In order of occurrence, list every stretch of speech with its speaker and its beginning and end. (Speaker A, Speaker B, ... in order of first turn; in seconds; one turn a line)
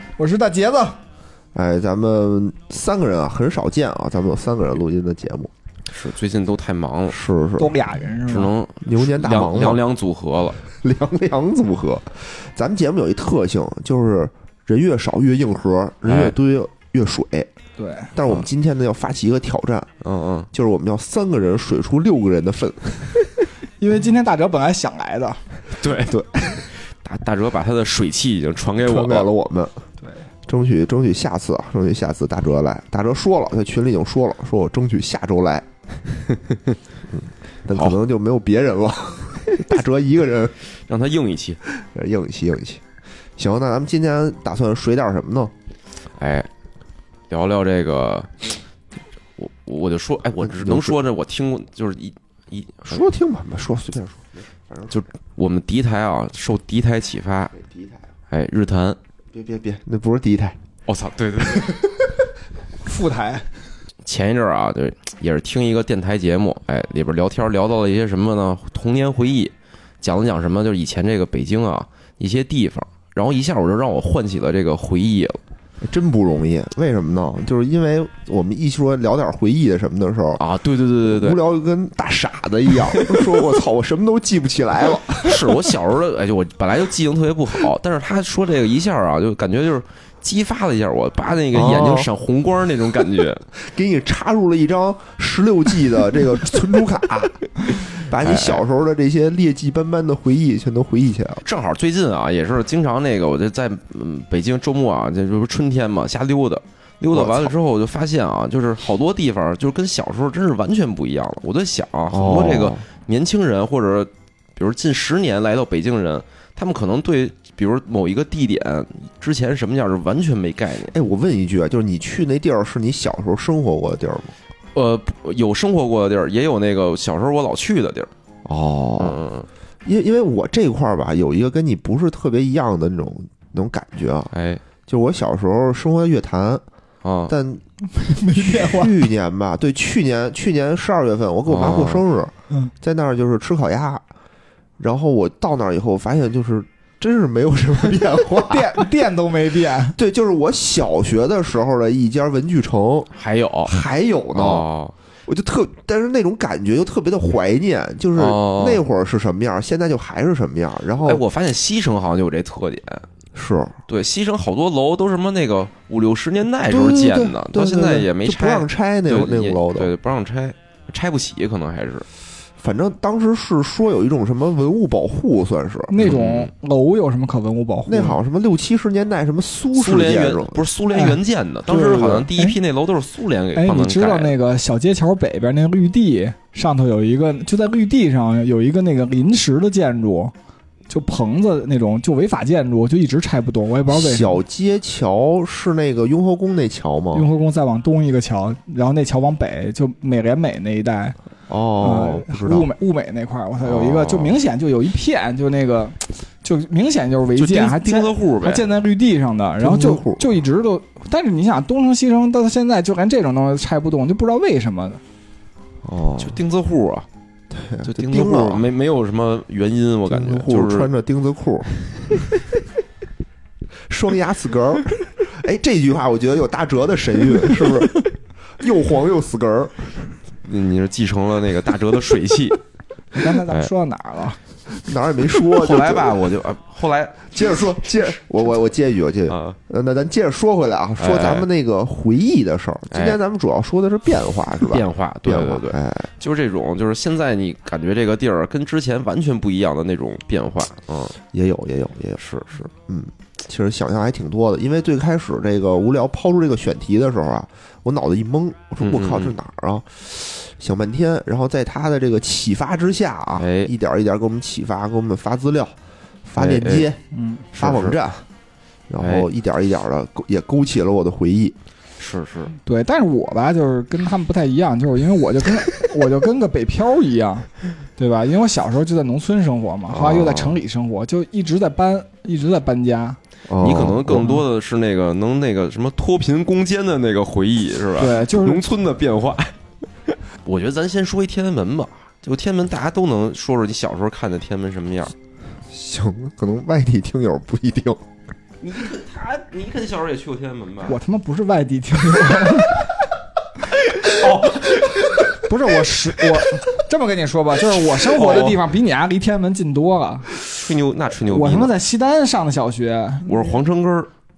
Speaker A: 0.2-1.0
Speaker B: 1.5-5.5
Speaker C: 5.9-7.2
Speaker B: 7.1-7.7
Speaker A: 7.6-8.5
Speaker C: 8.3-10.6
Speaker B: 8.8-9.8
Speaker B: 10.6-17.5
Speaker C: 16.1-16.4
Speaker A: 17.8-18.1
Speaker B: 18.1-19.9
Speaker C: 20.0-20.5
Speaker B: 20.5-23.3
Speaker A: 23.8-25.4
Speaker C: 25.7-29.3
Speaker B: 28.8-29.8
Speaker B: 30.5-35.7
Speaker C: 36.5-36.8
Speaker B: 37.1-40.6
Speaker C: 40.9-41.6
Speaker B: 41.7-42.8
Speaker B: 43.4-45.5
Speaker C: 46.2-46.5
Speaker C: 47.3-48.5
Speaker C: 49.4-53.0
Speaker B: 50.4-51.0
Speaker B: 52.9-54.9
Speaker C: 54.9-57.5
Speaker B: 57.6-57.9
Speaker C: 58.3-59.0
Speaker B: 59.3-60.6
Speaker C: 60.9-62.0
Speaker A: 62.8-63.5
Speaker C: 64.1-75.4
Speaker B: 75.8-80.4
Speaker C: 80.4-81.4
Speaker B: 81.1-85.6
Speaker C: 82.9-83.3
Speaker C: 85.2-93.4
Speaker B: 91.5-92.1
Speaker B: 93.6-101.4
Speaker C: 98.2-98.6
Speaker C: 101.4-121.0
Speaker B: 107.1-107.5
Speaker B: 112.1-112.8
Speaker B: 120.9-124.3
Speaker C: 124.8-128.1
Speaker B: 128.4-129.2
Speaker C: 129.0-129.5
Speaker B: 129.8-134.3
Speaker C: 134.3-134.6
Speaker B: 134.9-136.6
Speaker C: 137.0-137.3
Speaker B: 137.3-137.6
Speaker A: 137.9-139.0
Speaker B: 138.3-144.0
Speaker C: 141.5-142.0
Speaker B: 144.8-148.8
Speaker A: 148.4-150.0
Speaker B: 150.0-153.1
Speaker C: 153.2-153.8
Speaker B: 153.7-154.7
Speaker C: 154.3-154.9
Speaker B: 155.3-161.2
Speaker C: 158.2-158.8
Speaker C: 161.0-163.1
Speaker B: 163.3-163.8
Speaker C: 163.9-172.1
Speaker B: 166.7-169.9
Speaker B: 172.6-175.9
Speaker A: 175.9-178.2
Speaker C: 176.0-176.5
Speaker B: 177.9-180.6
Speaker C: 179.8-184.3
Speaker A: 180.9-181.2
Speaker B: 181.7-182.3
Speaker A: 182.1-182.6
Speaker A: 183.6-190.3
Speaker A: 190.9-194.4
Speaker B: 193.9-197.3
Speaker A: 197.1-201.2
Speaker B: 201.5-202.7
Speaker A: 201.8-215.0
Speaker C: 203.6-204.4
Speaker C: 207.4-208.7
Speaker B: 209.6-210.3
Speaker B: 215.8-216.4
Speaker C: 216.2-217.1
Speaker B: 217.5-218.7
Speaker C: 217.8-220.9
Speaker B: 220.1-222.2
Speaker B: 223.9-228.1
Speaker B: 228.6-230.1
Speaker C: 230.4-232.6
Speaker A: 233.1-234.4
Speaker B: 234.8-236.3
Speaker C: 235.5-237.4
Speaker B: 237.3-246.1
Speaker C: 239.3-239.6
Speaker C: 241.0-241.5
Speaker C: 242.9-243.2
Speaker C: 244.7-251.2
Speaker B: 251.3-265.8
Speaker C: 252.2-252.6
Speaker C: 258.8-259.3
Speaker C: 263.4-263.7
Speaker B: 266.3-267.0
Speaker C: 266.4-266.9
Speaker A: 267.1-267.5
Speaker C: 267.6-268.0
Speaker B: 267.6-268.3
Speaker B: 268.9-271.6
Speaker C: 269.0-269.3
Speaker C: 272.0-272.6
Speaker A: 272.6-283.2
Speaker C: 279.9-280.6
Speaker B: 283.5-284.3
Speaker C: 283.6-289.6
Speaker A: 288.0-288.7
Speaker C: 290.1-295.1
Speaker B: 295.7-298.0
Speaker C: 298.6-301.0
Speaker A: 300.9-302.9
Speaker C: 303.9-305.1
Speaker A: 305.4-310.3
Speaker C: 308.0-308.6
Speaker C: 310.5-311.7
Speaker A: 311.3-313.6
Speaker C: 313.3-314.1